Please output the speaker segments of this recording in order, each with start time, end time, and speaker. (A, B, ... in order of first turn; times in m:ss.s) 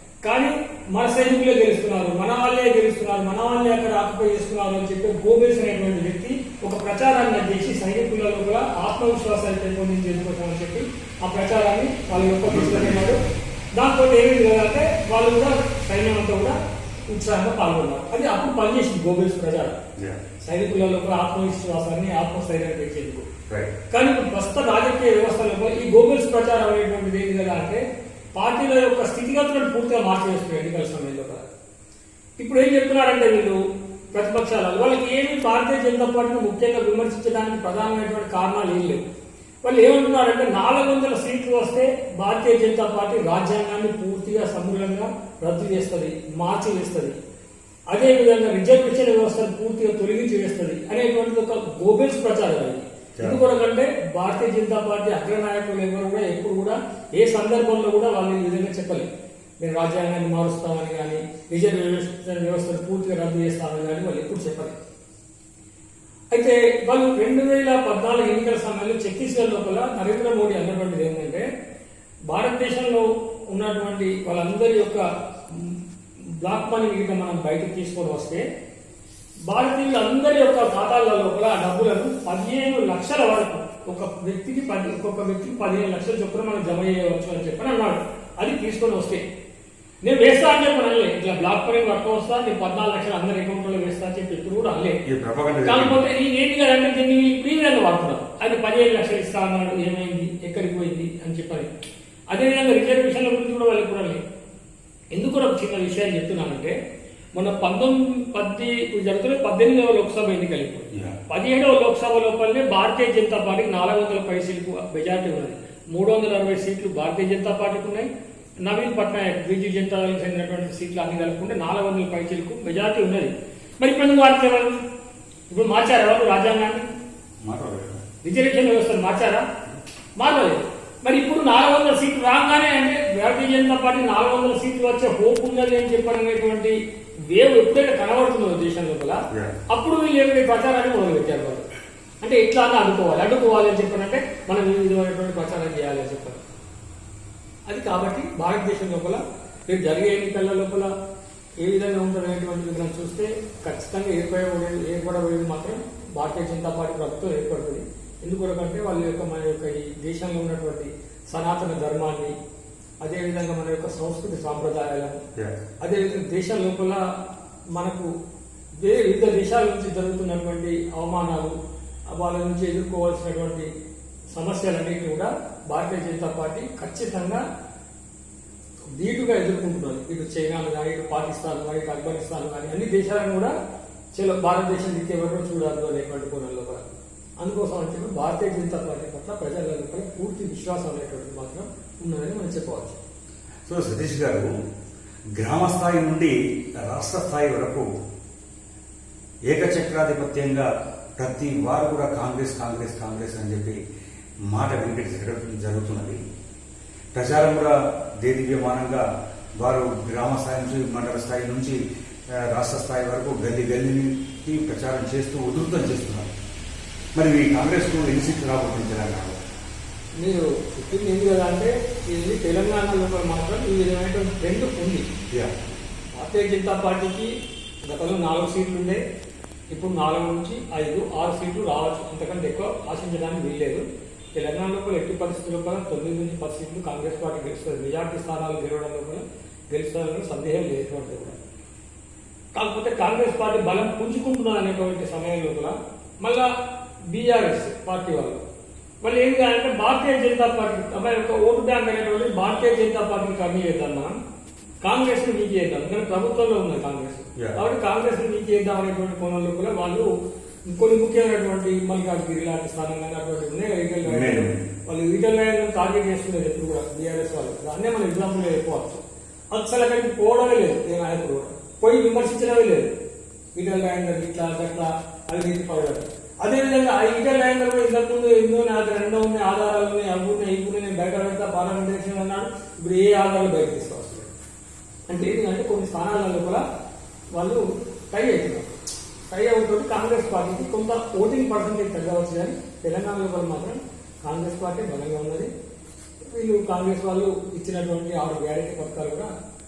0:00.2-0:13.2 A
0:12.5-0:13.1 B
0:13.7-0:16.6 A
0:17.1-0:19.8 A
0:20.4-0:23.2 A
0:23.9-0:27.8 A
0:28.3-0:31.5 A
0:32.4-0:33.6 A
0:34.1-0:39.0 A
0:39.6-0:47.2 A
0:47.9-0:59.1 A
0:59.6-1:04.8 A
1:06.3-1:11.4 A
1:12.3-1:18.4 A
1:19.5-1:29.2 A
1:30.0-1:35.0 A
1:35.0-1:36.0 B
1:35.6-1:41.7 A
1:42.3-1:44.2 A
1:45.1-1:46.7 A
1:47.3-1:58.1 A
1:58.6-2:04.8 A
2:05.5-2:06.8 A
2:07.4-2:08.0 B
2:08.2-2:09.4 A
2:10.2-2:16.7 A
2:17.3-2:21.6 A
2:22.2-2:26.4 A
2:27.7-2:30.9 A
2:31.6-2:42.3 A
2:43.0-2:45.2 A
2:45.8-2:47.0 A
2:47.7-2:48.1 A
2:48.8-2:51.5 A
2:52.1-2:53.7 A
2:54.3-2:57.4 A
2:58.9-3:03.5 A
3:04.1-3:06.8 A
3:07.4-3:13.0 A
3:13.6-3:14.5 B
3:15.4-3:17.8 B
3:19.5-3:23.8 B
3:24.5-3:26.2 B
3:27.1-3:29.0 B
3:29.6-3:31.8 B
3:32.5-3:36.3 B
3:37.2-3:39.4 B
3:40.2-3:45.0 A
3:46.2-3:47.3 A
3:47.9-3:49.0 A
3:49.7-4:01.4 A
4:02.5-4:06.5 A
4:07.1-4:08.4 A
4:09.0-4:14.1 A
4:14.8-4:20.1 A
4:20.7-4:32.9 A
4:24.1-4:24.6 B
4:33.5-4:44.3 A
4:45.1-4:46.6 A
4:47.3-4:48.7 A
4:49.3-4:55.5 A
4:56.3-4:59.3 A